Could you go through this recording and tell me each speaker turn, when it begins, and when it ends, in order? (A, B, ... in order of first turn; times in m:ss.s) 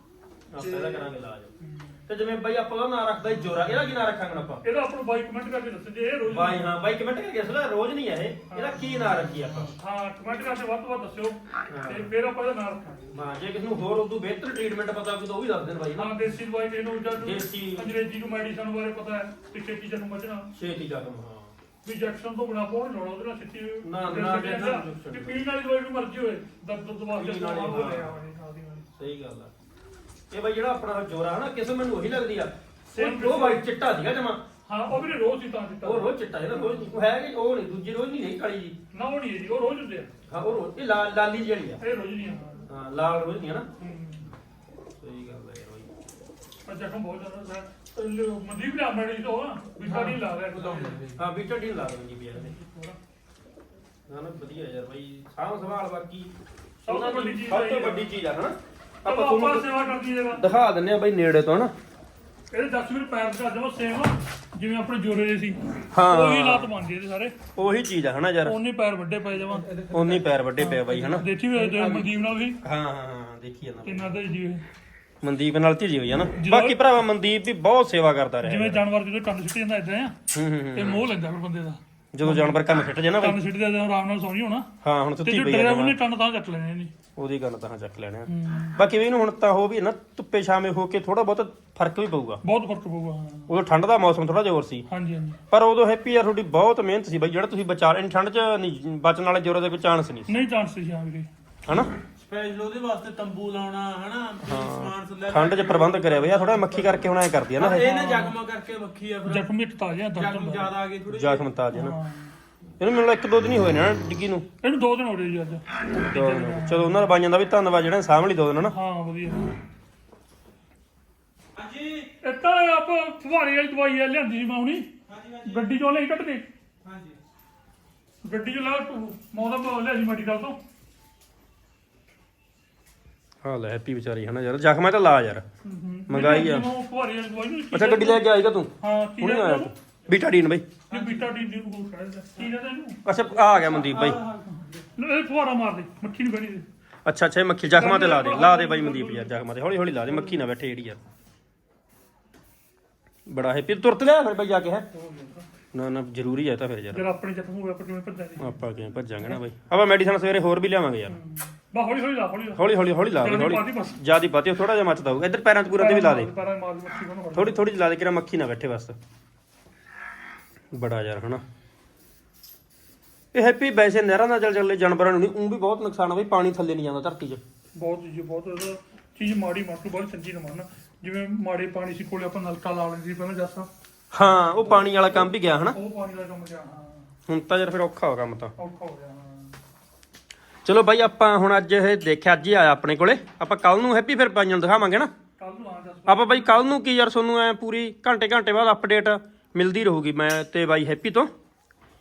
0:00.5-0:01.5 A
0:00.6-0:01.1 B
0:01.6-0:02.0 B
0:02.1-0:04.6 A
0:04.6-0:06.7 B
0:06.3-0:09.7 A
0:08.5-0:08.8 B
0:09.8-0:13.1 B
0:11.7-0:12.1 A
0:13.1-0:16.1 A
0:16.0-0:20.5 B
0:17.2-0:18.0 A
0:20.5-0:21.5 A
0:21.8-0:28.9 B
0:23.8-0:25.4 A
0:27.2-0:28.1 A
0:29.0-0:29.5 A
0:30.3-0:34.4 A
0:32.9-0:33.7 B
0:34.7-0:36.9 B
0:35.8-0:38.8 A
0:38.9-0:40.1 B
0:40.3-0:41.8 A
0:41.8-0:42.7 B
0:42.7-0:43.7 A
0:43.8-0:44.3 B
0:45.0-0:45.9 A
0:46.7-0:51.0 B
0:49.8-0:51.2 C
0:51.2-0:52.5 A
0:52.4-0:53.0 B
0:54.1-0:56.3 A
0:56.8-0:58.1 B
0:56.9-1:01.7 A
0:59.1-1:00.4 B
1:02.5-1:07.4 B
1:05.9-1:06.7 A
1:07.6-1:08.6 A
1:08.4-1:09.7 B
1:09.4-1:10.3 C
1:09.9-1:11.2 A
1:10.6-1:12.6 B
1:10.9-1:12.1 C
1:12.6-1:14.2 A
1:13.8-1:14.6 B
1:15.2-1:18.8 A
1:16.3-1:16.8 B
1:18.4-1:20.2 B
1:20.3-1:21.0 A
1:20.8-1:22.6 B
1:22.2-1:23.4 A
1:23.2-1:24.7 B
1:24.8-1:26.0 A
1:25.2-1:26.9 B
1:27.2-1:32.4 A
1:28.3-1:28.8 B
1:32.4-1:33.5 B
1:33.5-1:34.9 A
1:34.9-1:35.4 B
1:35.5-1:40.3 A
1:40.3-1:41.3 B
1:41.7-1:41.9 A
1:42.2-1:47.0 C
1:44.4-1:47.9 A
1:47.6-1:49.5 C
1:47.7-1:48.4 B
1:49.2-1:50.7 B
1:50.2-1:51.5 C
1:51.1-1:52.0 A
1:51.7-1:52.3 B
1:52.8-1:54.4 A
1:54.6-1:57.1 B
1:56.0-1:58.7 A
1:58.7-1:59.5 B
2:01.6-2:02.1 C
2:02.2-2:04.9 B
2:05.1-2:05.8 C
2:05.4-2:06.4 B
2:06.8-2:07.2 C
2:08.2-2:10.6 B
2:13.4-2:15.4 A
2:15.6-2:18.2 B
2:16.1-2:16.7 A
2:17.7-2:20.7 A
2:18.8-2:19.7 B
2:20.9-2:23.0 B
2:20.9-2:21.3 C
2:23.0-2:24.2 A
2:23.3-2:24.7 C
2:24.5-2:26.7 B
2:27.1-2:31.0 A
2:27.7-2:29.4 B
2:30.0-2:30.4 B
2:33.3-2:34.8 A
2:34.9-2:35.5 B
2:35.7-2:37.0 A
2:36.9-2:38.6 B
2:38.4-2:41.2 A
2:41.1-2:44.0 B
2:42.6-2:46.3 A
2:45.7-2:47.6 B
2:47.4-2:49.0 A
2:50.7-2:51.4 A
2:53.3-2:57.4 A
2:57.8-3:03.7 B
3:04.1-3:05.8 A
3:04.5-3:07.1 B
3:07.3-3:08.5 A
3:08.6-3:09.6 B
3:10.6-3:15.1 A
3:15.4-3:16.7 B
3:16.1-3:21.3 A